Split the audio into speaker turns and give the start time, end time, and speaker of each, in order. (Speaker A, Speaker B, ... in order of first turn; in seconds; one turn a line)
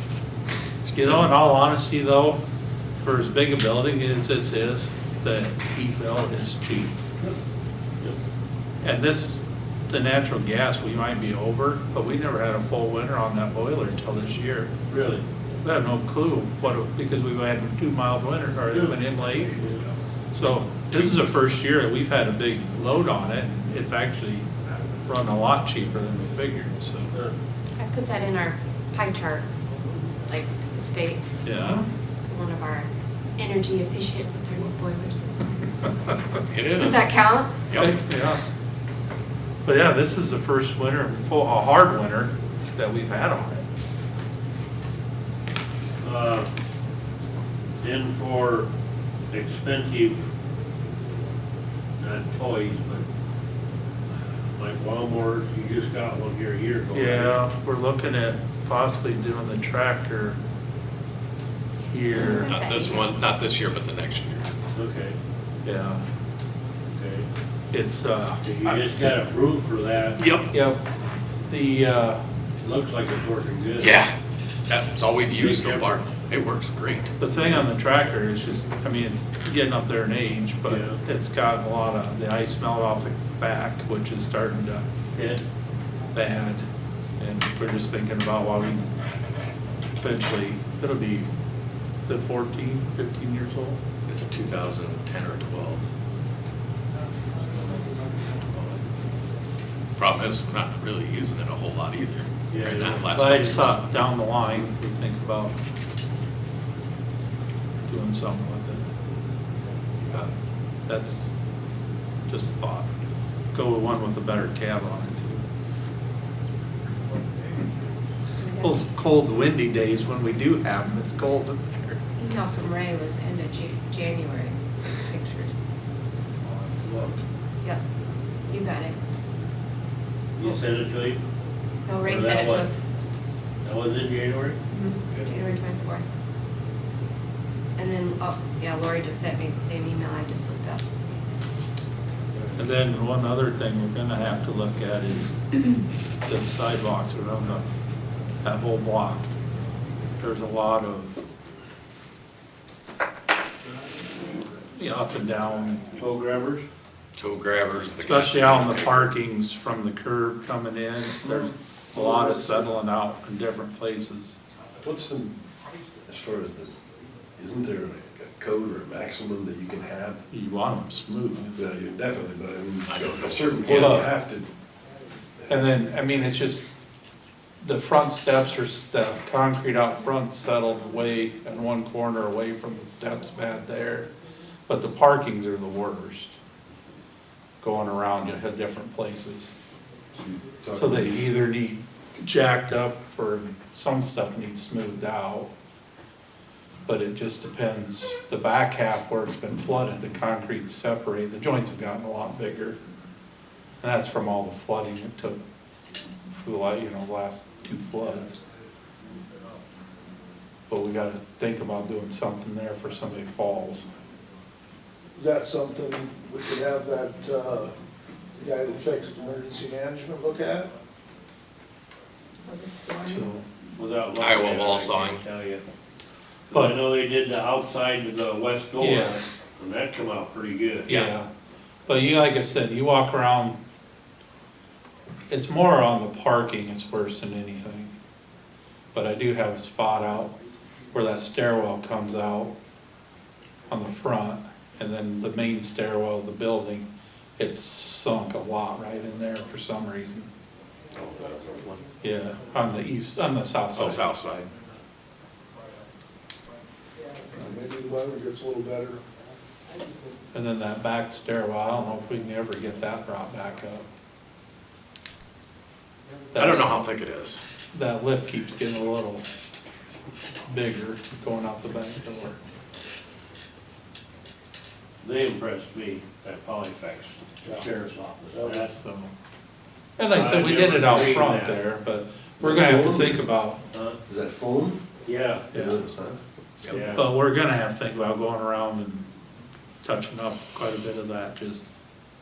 Speaker A: 0.9-1.2
Speaker B: 0.9-2.4
Speaker B: 3.0-6.9
Speaker B: 8.8-14.7
Speaker C: 14.9-15.2
Speaker B: 15.6-19.5
Speaker C: 18.7-19.8
Speaker B: 20.3-24.5
Speaker B: 25.1-27.1
Speaker D: 27.8-29.5
Speaker D: 30.3-31.2
Speaker B: 31.4-31.9
Speaker D: 32.3-36.1
Speaker A: 36.5-37.1
Speaker D: 36.7-37.6
Speaker A: 37.7-38.0
Speaker B: 37.7-38.4
Speaker B: 39.6-43.6
Speaker C: 46.0-46.5
Speaker C: 47.8-48.7
Speaker C: 49.3-50.2
Speaker C: 52.0-53.0
Speaker C: 54.5-57.4
Speaker B: 56.9-60.4
Speaker B: 61.8-62.5
Speaker D: 62.1-63.1
Speaker A: 62.3-64.5
Speaker C: 64.7-65.2
Speaker B: 65.6-66.0
Speaker C: 66.9-67.3
Speaker B: 67.7-68.9
Speaker C: 68.4-70.2
Speaker A: 70.2-70.5
Speaker B: 70.5-70.8
Speaker B: 71.5-72.2
Speaker C: 72.6-74.0
Speaker A: 73.8-74.1
Speaker A: 74.7-77.1
Speaker C: 75.2-76.2
Speaker B: 77.2-84.8
Speaker C: 80.7-81.0
Speaker C: 85.1-85.4
Speaker B: 86.1-86.7
Speaker B: 87.2-88.8
Speaker B: 90.0-91.3
Speaker B: 92.0-93.8
Speaker A: 94.1-95.8
Speaker A: 100.0-103.8
Speaker C: 102.5-103.0
Speaker B: 103.1-105.6
Speaker B: 107.9-108.8
Speaker B: 110.9-111.3
Speaker B: 112.3-112.9
Speaker B: 113.5-115.4
Speaker D: 118.4-118.8
Speaker B: 118.6-122.0
Speaker D: 122.2-125.5
Speaker E: 126.5-127.2
Speaker D: 128.5-128.9
Speaker C: 130.4-131.2
Speaker D: 131.9-132.8
Speaker C: 132.0-132.7
Speaker C: 133.6-135.4
Speaker D: 134.7-136.0
Speaker D: 137.8-140.9
Speaker C: 142.3-142.6
Speaker B: 142.6-145.5
Speaker B: 146.2-147.7
Speaker B: 148.4-149.3
Speaker B: 150.2-151.2
Speaker B: 154.7-155.8
Speaker C: 156.0-156.6
Speaker A: 157.2-159.1
Speaker B: 158.0-164.4
Speaker F: 161.2-161.5
Speaker F: 164.8-165.4
Speaker F: 166.1-166.8
Speaker F: 167.4-170.2
Speaker B: 170.3-171.6
Speaker F: 171.5-174.5
Speaker A: 172.9-174.0
Speaker B: 173.7-174.1
Speaker F: 175.4-175.7
Speaker B: 175.5-176.6
Speaker B: 177.6-184.1
Speaker B: 184.7-186.4
Speaker B: 187.6-189.5
Speaker F: 190.1-191.2
Speaker B: 190.8-195.5
Speaker B: 196.8-202.8
Speaker B: 203.8-205.4
Speaker B: 206.3-208.4
Speaker B: 210.7-213.9
Speaker E: 215.2-217.7
Speaker E: 218.4-220.7
Speaker D: 222.4-223.2
Speaker B: 223.0-223.4
Speaker C: 223.7-225.6
Speaker A: 224.2-225.2
Speaker C: 226.5-230.9
Speaker B: 226.5-226.8
Speaker B: 228.8-229.2
Speaker B: 230.9-231.3
Speaker B: 231.9-233.6
Speaker B: 235.3-237.9
Speaker B: 238.9-240.3
Speaker B: 240.9-242.5
Speaker B: 243.7-250.3
Speaker A: 250.9-251.8
Speaker B: 252.0-254.1
Speaker A: 253.7-254.5
Speaker E: 257.3-259.0
Speaker B: 260.3-263.8
Speaker B: 266.3-266.8
Speaker A: 266.4-267.4
Speaker B: 267.7-269.2
Speaker B: 270.5-272.4
Speaker C: 275.0-278.7
Speaker E: 278.3-278.7
Speaker B: 278.7-279.1
Speaker B: 280.0-283.6
Speaker C: 280.1-281.6
Speaker F: 282.4-283.2
Speaker C: 283.7-284.0
Speaker F: 284.1-284.9
Speaker C: 285.0-285.5
Speaker F: 285.5-286.2
Speaker B: 285.5-285.8
Speaker A: 286.6-286.9
Speaker C: 286.7-287.0
Speaker B: 286.7-289.1
Speaker B: 289.8-291.7